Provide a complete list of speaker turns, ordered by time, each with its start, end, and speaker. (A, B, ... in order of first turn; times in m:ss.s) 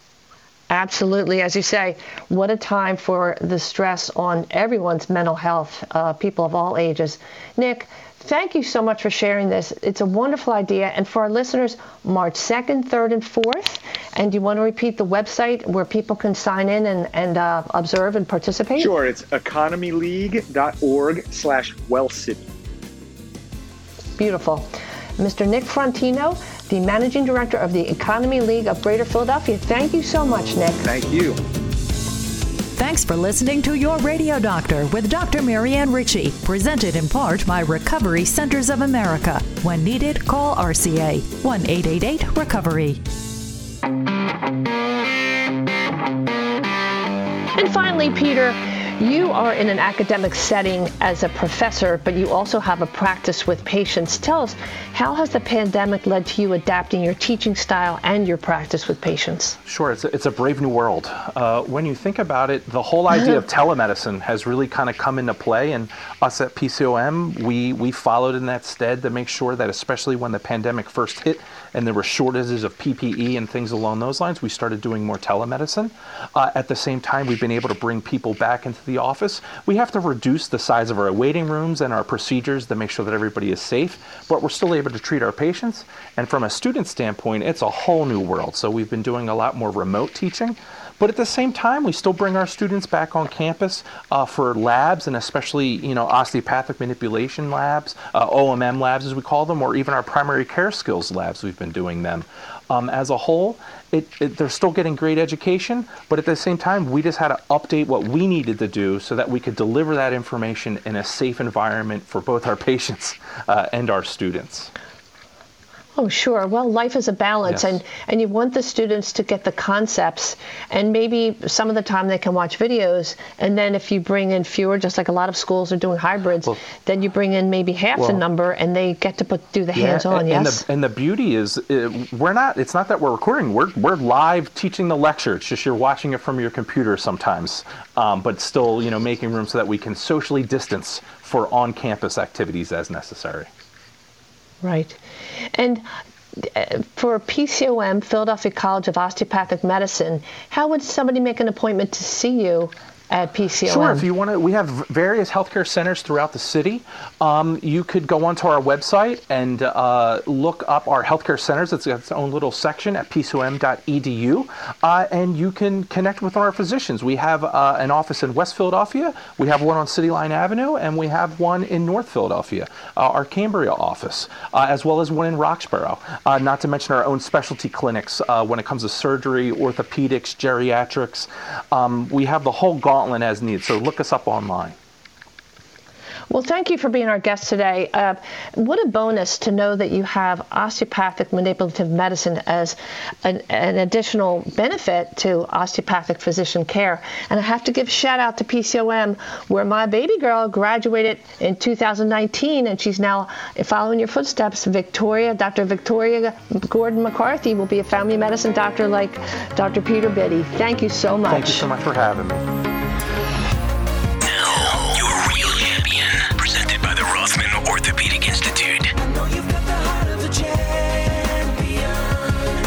0:00.7-0:18.9 A
0:18.8-0:22.5 B
0:24.2-0:30.8 A
0:30.8-0:31.4 B
0:32.8-0:43.0 C
0:47.6-0:59.6 A
0:59.6-1:54.7 D
1:56.0-2:10.6 A
1:57.5-1:57.8 D
2:08.0-2:08.2 D
2:09.7-2:23.5 D
2:24.6-2:25.0 A
2:25.5-2:25.8 A
2:26.4-2:34.0 A
2:33.7-3:04.8 D
3:06.3-3:31.7 A
3:31.3-3:32.5 D
3:34.2-3:38.9 E
3:39.2-3:41.4 C